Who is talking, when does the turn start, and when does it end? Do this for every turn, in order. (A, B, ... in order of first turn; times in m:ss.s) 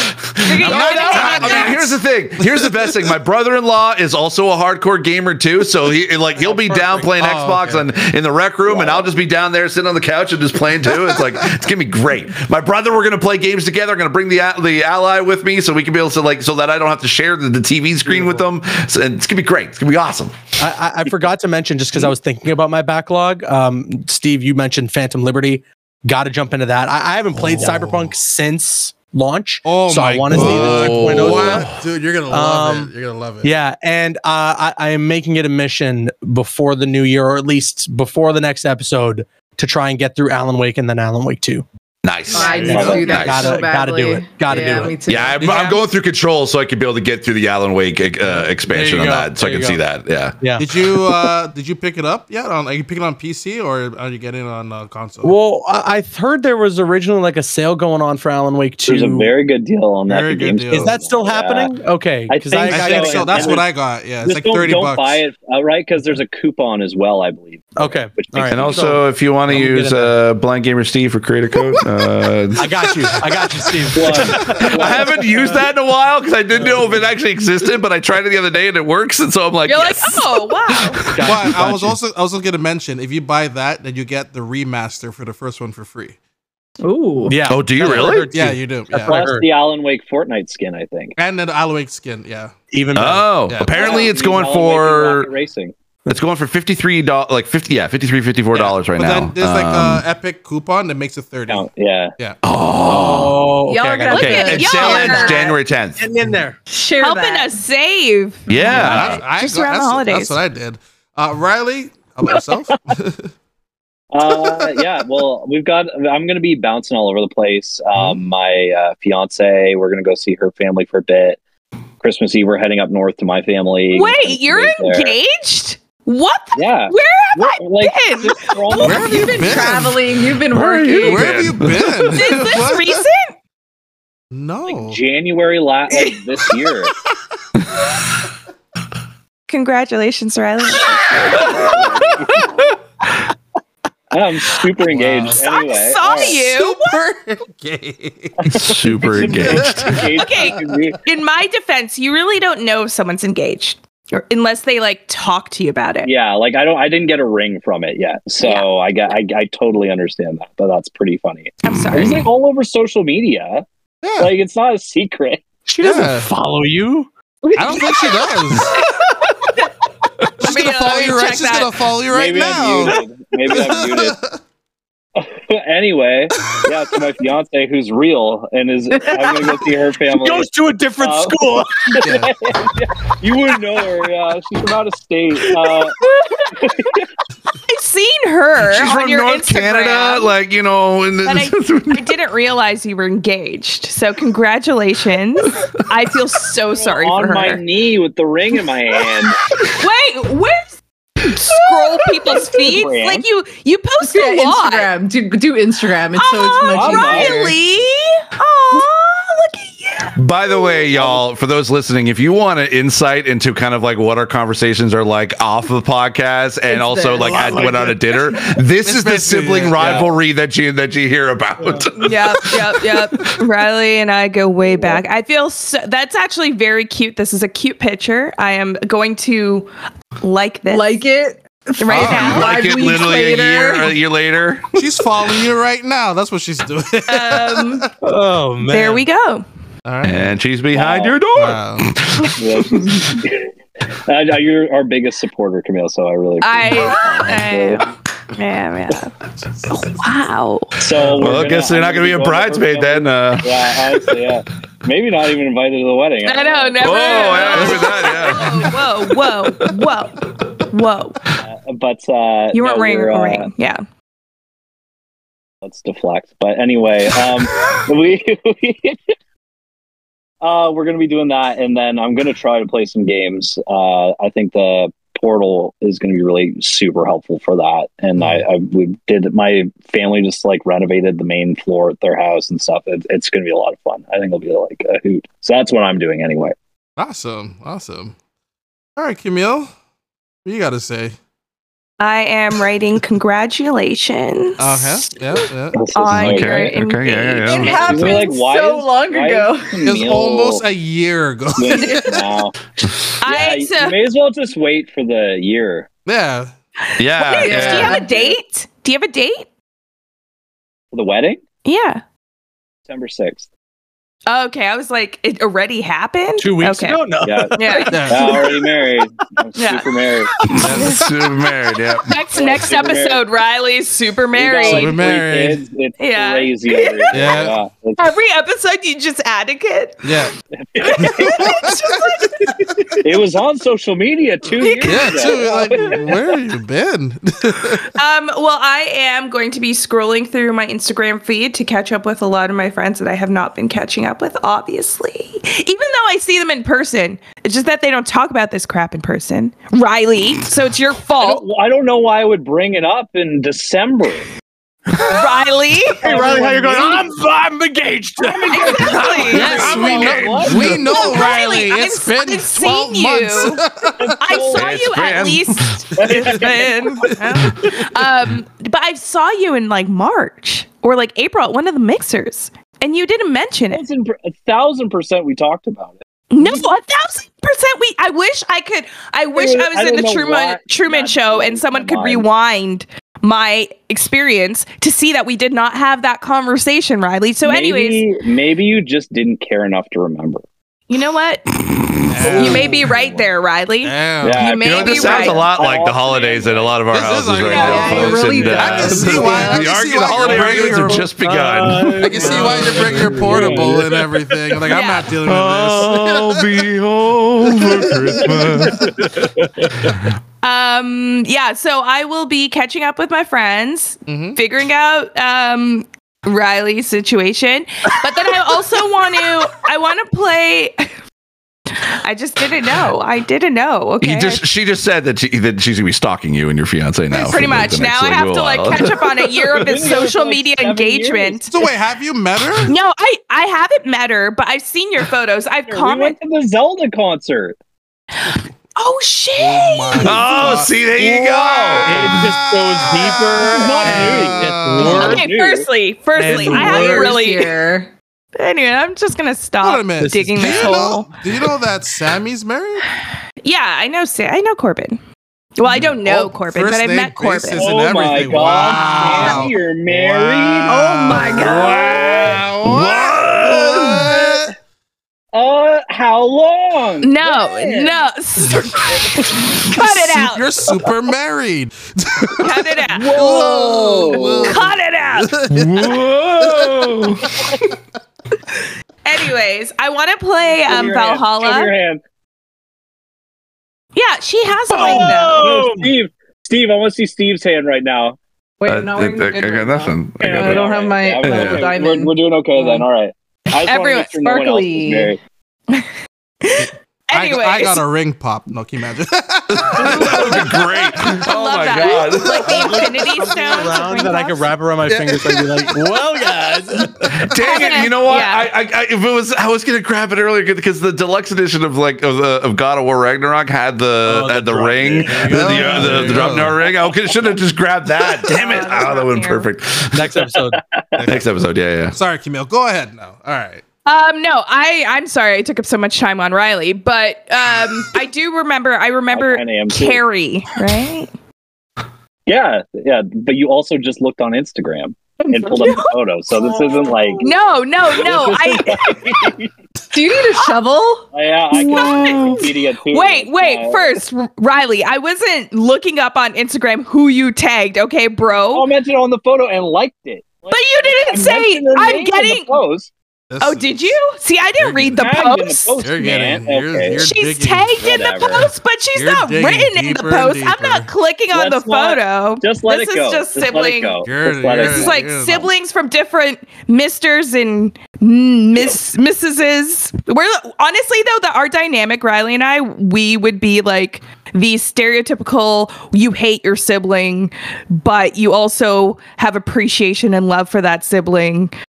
0:00.4-0:20.4 A
0:00.4-0:01.9 B
0:00.6-0:01.7 C
0:00.6-0:03.0 D
0:06.4-0:07.1 C
0:07.1-0:07.8 D
0:08.6-0:09.0 E
0:18.0-0:18.4 C
0:20.6-0:31.7 C
0:27.4-0:28.1 D
0:29.6-0:33.5 D
0:30.3-0:31.8 A
0:32.3-0:32.9 C
0:33.4-0:41.6 C
0:42.0-0:43.6 A
0:42.3-0:45.6 F
0:42.3-0:42.9 D
0:42.6-0:45.0 C
0:42.7-0:43.1 E
0:44.5-0:44.8 D
0:44.6-0:50.4 A
0:45.4-0:45.8 D
0:48.3-0:49.8 C
0:50.4-0:51.1 C
0:50.6-0:55.4 D
0:55.2-0:59.3 C
0:58.9-1:01.7 E
1:00.1-1:00.9 D
1:00.7-1:03.6 C
1:02.3-1:03.7 E
1:02.6-1:05.2 D
1:04.2-1:08.9 E
1:07.8-1:10.2 C
1:08.5-1:12.7 A
1:12.6-1:15.6 C
1:13.7-1:14.5 D
1:13.9-1:15.1 E
1:14.5-1:20.7 A
1:16.5-1:16.9 C
1:19.6-1:21.0 B
1:21.1-1:22.0 C
1:21.2-1:26.2 D
1:26.8-1:27.4 F
1:27.3-1:29.4 C
1:27.5-1:28.3 A
1:28.3-1:29.2 D
1:29.0-1:31.1 E
1:31.2-1:32.5 D
1:32.7-1:33.3 C
1:33.0-1:35.3 A
1:33.4-1:34.0 D
1:33.7-1:35.7 E
1:36.0-1:40.0 A
1:38.5-1:41.7 D
1:41.5-1:42.1 E
1:42.4-1:43.5 A
1:42.8-1:44.7 C
1:43.7-1:45.6 F
1:43.8-1:45.5 B
1:44.1-1:46.0 A
1:46.0-1:46.6 C
1:46.7-1:47.5 F
1:47.0-1:50.4 B
1:48.5-1:49.2 A
1:48.6-1:53.3 D
1:54.1-2:01.4 E
1:54.2-1:54.9 D
2:02.0-2:05.2 E
2:03.9-2:09.1 B
2:06.5-2:09.5 E
2:08.8-2:10.0 D
2:09.0-2:11.3 F
2:10.5-2:12.2 A
2:11.0-2:13.1 D
2:12.1-2:13.3 B
2:14.3-2:15.0 D
2:14.6-2:16.9 E
2:15.9-2:16.2 B
2:19.5-2:21.9 B
2:21.5-2:22.5 E
2:24.1-2:26.5 E
2:24.9-2:25.4 D
2:25.4-2:27.0 B
2:26.5-2:28.5 D
2:28.4-2:31.0 E
2:28.5-2:30.0 A
2:29.2-2:30.1 D
2:30.2-2:36.1 B
2:36.0-2:43.6 E
2:38.4-2:38.7 B
2:41.6-2:42.3 B
2:44.0-2:44.3 D
2:44.2-2:45.4 E
2:45.6-2:47.1 C
2:45.8-2:46.3 D
2:47.5-2:48.8 D
2:47.7-2:48.0 B
2:50.4-2:51.7 B
2:50.4-2:54.4 D
2:52.1-2:54.2 E
2:55.2-3:00.5 E
2:58.9-3:02.1 C
3:01.0-3:07.0 E
3:02.0-3:02.3 D
3:07.7-3:10.3 B
3:08.6-3:12.1 A
3:11.2-3:17.6 B
3:16.8-3:19.4 E
3:19.6-3:24.9 B
3:22.3-3:23.2 E
3:24.0-3:27.6 F
3:26.1-3:30.9 B
3:26.7-3:27.5 E
3:30.2-3:43.3 A
3:36.7-3:37.8 F
3:37.2-3:38.0 D
3:38.8-3:40.1 D
3:42.0-3:49.7 B
3:50.2-3:51.0 B
3:50.7-3:54.0 F
3:51.8-3:52.5 B
3:51.9-3:54.7 A
3:54.7-3:57.8 D
3:57.1-3:57.9 B
3:58.0-3:59.0 C
3:58.7-3:59.4 B
3:59.8-4:00.4 D
4:00.0-4:03.2 A
4:00.7-4:01.2 E
4:01.3-4:01.9 D
4:02.3-4:03.5 E
4:04.0-4:07.9 E
4:06.4-4:09.1 B
4:09.7-4:10.8 B
4:10.8-4:18.0 E
4:11.0-4:14.4 A
4:16.2-4:21.2 B
4:16.8-4:19.9 A
4:21.4-4:23.5 E
4:22.5-4:23.8 B
4:25.6-4:29.1 E
4:30.4-4:46.6 E
4:47.0-4:48.1 D
4:49.0-4:49.7 D
4:50.4-4:51.2 D
4:52.0-4:55.4 B
4:54.6-4:55.8 D
4:55.7-5:00.6 E
4:55.9-4:58.4 B
4:56.1-4:58.2 A
4:57.4-4:59.8 F
4:59.8-5:02.2 D
5:01.6-5:02.5 E
5:01.8-5:02.1 B
5:03.2-5:04.0 B
5:03.2-5:05.9 E
5:06.0-5:06.5 D
5:06.9-5:09.5 B
5:07.0-5:08.0 A
5:07.3-5:08.0 F
5:10.9-5:11.4 E
5:11.6-5:12.0 B
5:12.8-5:13.5 E
5:14.3-5:17.0 B
5:16.4-5:18.9 C
5:17.2-5:20.3 E
5:17.5-5:18.0 B
5:17.9-5:18.4 D
5:19.5-5:19.9 B
5:20.5-5:22.2 A
5:20.6-5:21.0 D
5:22.0-5:25.0 B
5:22.3-5:23.2 E
5:24.3-5:28.1 E
5:24.6-5:25.6 D
5:26.0-5:27.4 B
5:27.1-5:27.6 D
5:28.0-5:30.1 B
5:30.0-5:30.3 D
5:30.6-5:31.6 E
5:30.8-5:33.0 B
5:31.0-5:31.9 D
5:33.0-5:36.2 E
5:34.6-5:35.3 B
5:34.8-5:37.9 D
5:37.8-5:51.4 B
5:51.2-5:54.3 E
5:55.0-5:56.0 B
5:56.0-5:57.0 E
5:56.0-5:59.7 C
5:58.2-6:01.1 E
5:58.5-6:00.1 B
5:59.3-6:04.1 D
5:59.4-6:00.9 A
6:00.9-6:03.6 B
6:04.0-6:05.3 E
6:04.2-6:13.8 B
6:04.5-6:05.8 A
6:06.0-6:06.7 E
6:06.0-6:06.5 D
6:07.0-6:07.6 D
6:13.7-6:16.0 E
6:16.3-6:28.0 B
6:19.3-6:22.3 E
6:27.4-6:30.5 E
6:30.9-6:31.5 B
6:31.7-6:32.8 A
6:32.1-6:32.9 D
6:32.4-6:35.5 B
6:33.8-6:34.4 D
6:34.2-6:36.8 E
6:34.6-6:43.7 A
6:36.9-6:41.1 D
6:37.5-6:39.4 F
6:37.5-6:37.9 B
6:38.9-6:39.3 C
6:40.5-6:44.6 C
6:42.0-6:46.5 D
6:44.7-6:45.1 B
6:45.3-6:49.0 A
6:45.5-6:45.9 C
6:47.6-6:49.1 D
6:47.6-6:49.9 C
6:50.4-7:00.9 B
6:54.1-6:54.4 D
7:01.7-7:04.4 B
7:04.0-7:09.6 A
7:07.1-7:11.5 B
7:09.5-7:11.4 E
7:11.5-7:12.7 D
7:12.7-7:16.2 B
7:15.7-7:17.6 E
7:18.2-7:20.5 B
7:19.4-7:20.7 D
7:20.0-7:22.3 A
7:21.1-7:21.7 E
7:21.8-7:25.2 C
7:21.9-7:25.2 D
7:23.5-7:25.7 E
7:24.8-7:27.5 B
7:26.2-7:27.2 C
7:26.3-7:27.9 F
7:28.4-7:31.1 B
7:29.6-7:32.9 D
7:30.0-7:30.8 C
7:33.4-7:35.0 B
7:35.6-7:37.7 B
7:35.7-7:44.5 D
7:37.6-7:40.8 E
7:38.6-7:39.4 A
7:40.7-7:41.9 F
7:40.9-7:42.3 B
7:41.2-7:44.0 A
7:43.6-7:44.5 E
7:45.3-7:48.0 E
7:47.0-7:50.5 B
7:48.9-7:49.2 E
7:49.6-7:52.6 D
7:52.4-7:53.1 B
7:52.9-7:54.6 E
7:53.1-7:56.7 D
7:54.4-7:55.3 B
7:55.5-7:57.6 A
7:59.0-8:01.7 B
8:00.6-8:02.0 E
8:04.0-8:05.4 B
8:04.7-8:05.9 C
8:04.8-8:08.2 E
8:08.6-8:12.9 F
8:08.6-8:10.6 A
8:10.2-8:15.2 E
8:11.2-8:11.6 A
8:13.6-8:14.1 B
8:14.1-8:15.1 F
8:16.4-8:17.8 B
8:16.6-8:20.6 D
8:19.5-8:23.0 A
8:20.0-8:24.5 B
8:22.5-8:27.3 C
8:24.8-8:25.8 D
8:27.1-8:40.1 A
8:27.4-8:28.5 B
8:34.0-8:36.5 C
8:35.0-8:36.6 D
8:38.3-8:39.5 B
8:39.9-8:40.6 C
8:40.6-8:41.0 E
8:41.0-8:41.3 D
8:41.0-8:41.9 A
8:41.9-8:43.6 D
8:43.8-8:51.1 B
8:49.1-8:50.0 E
8:52.2-8:57.3 E
8:55.2-8:57.2 F
8:55.5-8:55.9 B
8:57.2-8:59.3 B
8:57.9-8:59.5 E
8:59.9-9:01.1 F
9:01.1-9:03.9 E
9:01.5-9:08.7 B
9:01.5-9:02.5 A
9:08.5-9:12.9 E
9:10.5-9:12.6 B
9:13.3-9:14.0 D
9:13.4-9:16.1 B
9:14.6-9:15.0 D
9:15.0-9:17.1 E
9:15.8-9:17.8 D
9:17.0-9:24.0 B
9:17.8-9:18.5 E
9:18.9-9:20.9 D
9:21.3-9:25.0 E
9:24.0-9:25.5 D
9:24.5-9:41.5 B